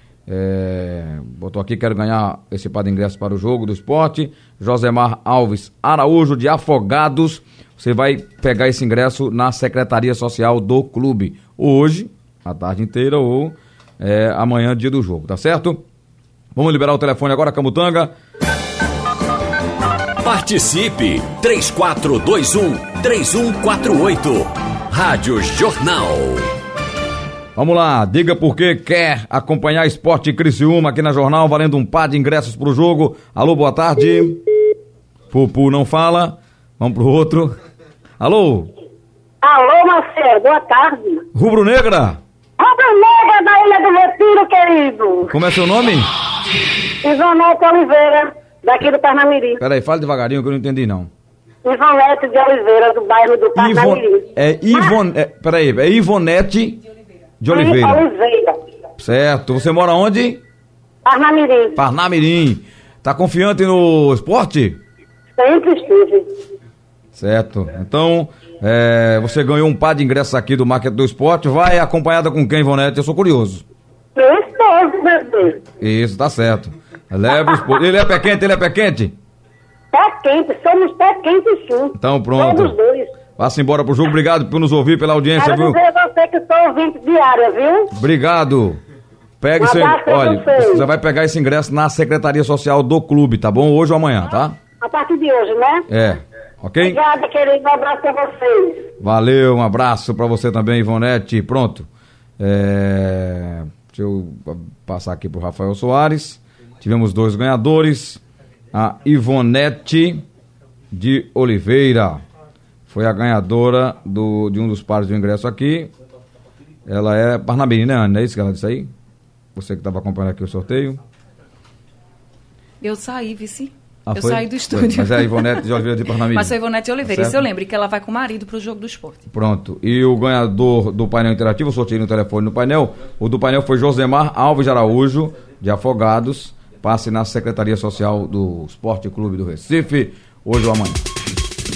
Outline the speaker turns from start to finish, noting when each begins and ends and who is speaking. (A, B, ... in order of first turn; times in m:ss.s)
0:00.3-0:15.8 A
0:16.5-0:18.1 A
0:20.2-0:26.5 B
0:27.6-0:34.4 A
0:35.3-0:37.6 A
0:38.2-0:38.7 A
0:39.4-0:41.2 C
0:41.3-0:42.2 A
0:42.6-0:45.3 C
0:45.3-0:46.1 A
0:47.0-0:49.6 C
0:49.6-0:51.1 A
0:51.6-0:55.0 C
0:53.5-0:56.8 A
0:57.4-0:58.0 A
0:57.5-0:58.6 C
0:59.0-1:00.4 A
1:01.0-1:01.8 C
1:01.8-1:04.8 A
1:05.4-1:06.3 C
1:07.1-1:13.6 A
1:14.2-1:15.6 C
1:15.8-1:19.2 A
1:19.9-1:23.1 C
1:22.0-1:22.7 A
1:23.4-1:25.8 A
1:25.3-1:27.9 C
1:27.9-1:28.8 A
1:29.4-1:34.6 A
1:29.6-1:30.8 C
1:34.8-1:35.8 C
1:35.9-1:37.0 A
1:36.8-1:38.8 C
1:39.0-1:41.9 A
1:42.4-1:48.2 A
1:48.7-1:50.2 A
1:50.9-1:52.2 A
1:52.9-1:55.9 A
1:56.8-1:58.9 A
1:59.5-2:01.0 A
2:02.8-2:05.6 D
2:04.0-2:07.4 A
2:06.3-2:09.2 D
2:09.3-2:21.0 A